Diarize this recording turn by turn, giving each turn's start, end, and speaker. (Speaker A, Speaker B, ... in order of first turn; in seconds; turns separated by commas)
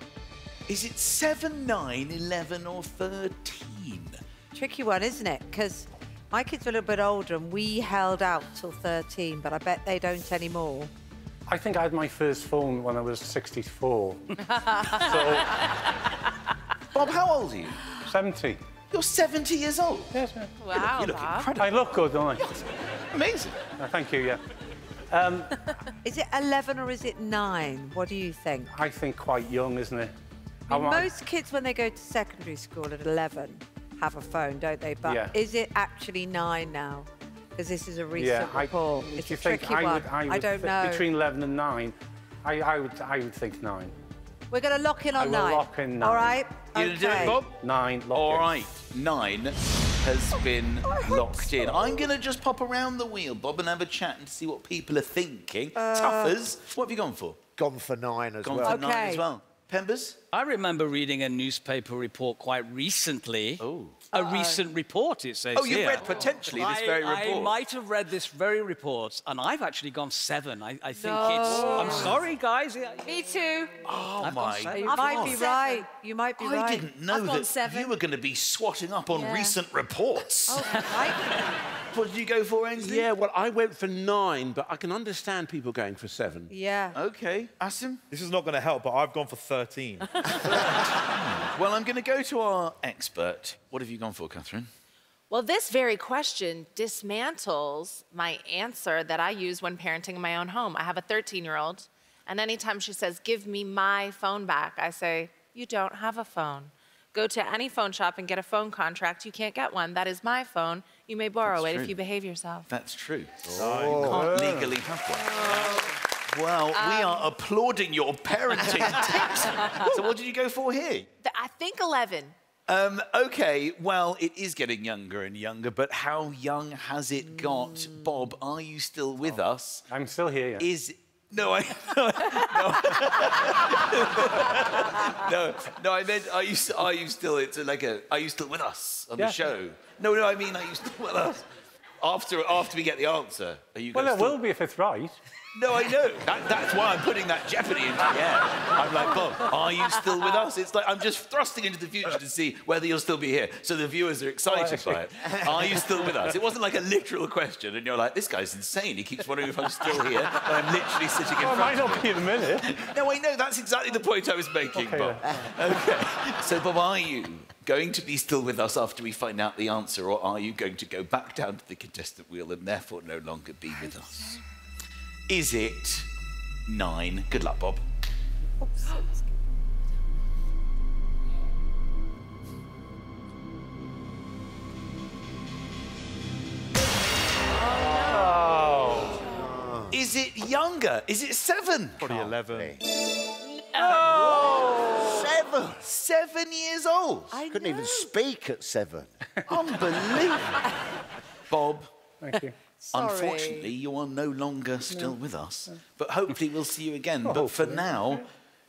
Speaker A: 0.7-4.2, Speaker B: 4.5-10.9, Speaker C: 11.5-15.6, Speaker A: 16.9-17.9, Speaker C: 18.1-18.6, Speaker A: 18.9-20.2, Speaker C: 20.1-20.5, Speaker D: 20.6-21.5, Speaker A: 20.7-21.9, Speaker C: 21.6-22.5, Speaker A: 22.4-23.6, Speaker C: 23.8-24.4, Speaker C: 25.1-25.7, Speaker B: 26.0-28.7, Speaker C: 28.7-30.1, Speaker C: 30.7-31.1, Speaker B: 30.7-41.1, Speaker C: 35.0-35.4, Speaker C: 38.1-43.9, Speaker B: 44.5-47.4, Speaker C: 45.1-46.4, Speaker A: 46.7-47.5, Speaker C: 47.1-48.6, Speaker A: 48.1-57.5, Speaker B: 51.0-51.3, Speaker B: 55.8-56.4, Speaker E: 57.6-58.8, Speaker A: 58.4-60.2, Speaker B: 58.6-59.2, Speaker F: 60.3-73.3, Speaker A: 63.6-64.1, Speaker B: 64.1-64.6, Speaker A: 65.5-67.6, Speaker B: 70.9-72.2, Speaker D: 73.0-73.8, Speaker A: 73.8-75.5, Speaker F: 74.2-75.5, Speaker B: 74.7-77.9, Speaker D: 75.5-75.8, Speaker A: 76.4-80.9, Speaker B: 79.1-79.6, Speaker B: 80.5-81.6, Speaker A: 81.9-83.1, Speaker G: 82.8-86.5, Speaker B: 86.5-87.0, Speaker A: 86.9-88.0, Speaker H: 88.1-90.7, Speaker A: 90.6-94.7, Speaker D: 95.3-112.7, Speaker A: 111.4-112.0, Speaker A: 112.7-121.1, Speaker E: 113.5-114.3, Speaker H: 113.5-114.4, Speaker C: 114.0-114.8, Speaker D: 115.3-115.9, Speaker D: 116.7-117.3, Speaker D: 118.8-119.9, Speaker D: 121.2-122.3, Speaker A: 122.7-129.8, Speaker C: 129.9-130.7, Speaker A: 130.6-141.4, Speaker A: 142.0-144.4, Speaker C: 143.9-145.2, Speaker A: 145.5-174.4, Speaker C: 154.5-155.1, Speaker C: 161.3-162.9, Speaker C: 164.7-165.2, Speaker A: 175.3-176.1, Speaker A: 176.7-177.8, Speaker C: 188.0-189.2, Speaker E: 189.3-189.9, Speaker A: 189.9-192.1, Speaker H: 192.0-192.7, Speaker E: 192.0-192.8, Speaker A: 193.7-197.4, Speaker E: 194.7-195.8, Speaker B: 197.3-198.1, Speaker E: 197.5-199.1, Speaker A: 199.5-200.6, Speaker A: 201.5-201.9, Speaker C: 202.2-202.6, Speaker B: 202.8-203.7, Speaker A: 202.9-208.3, Speaker C: 207.2-208.0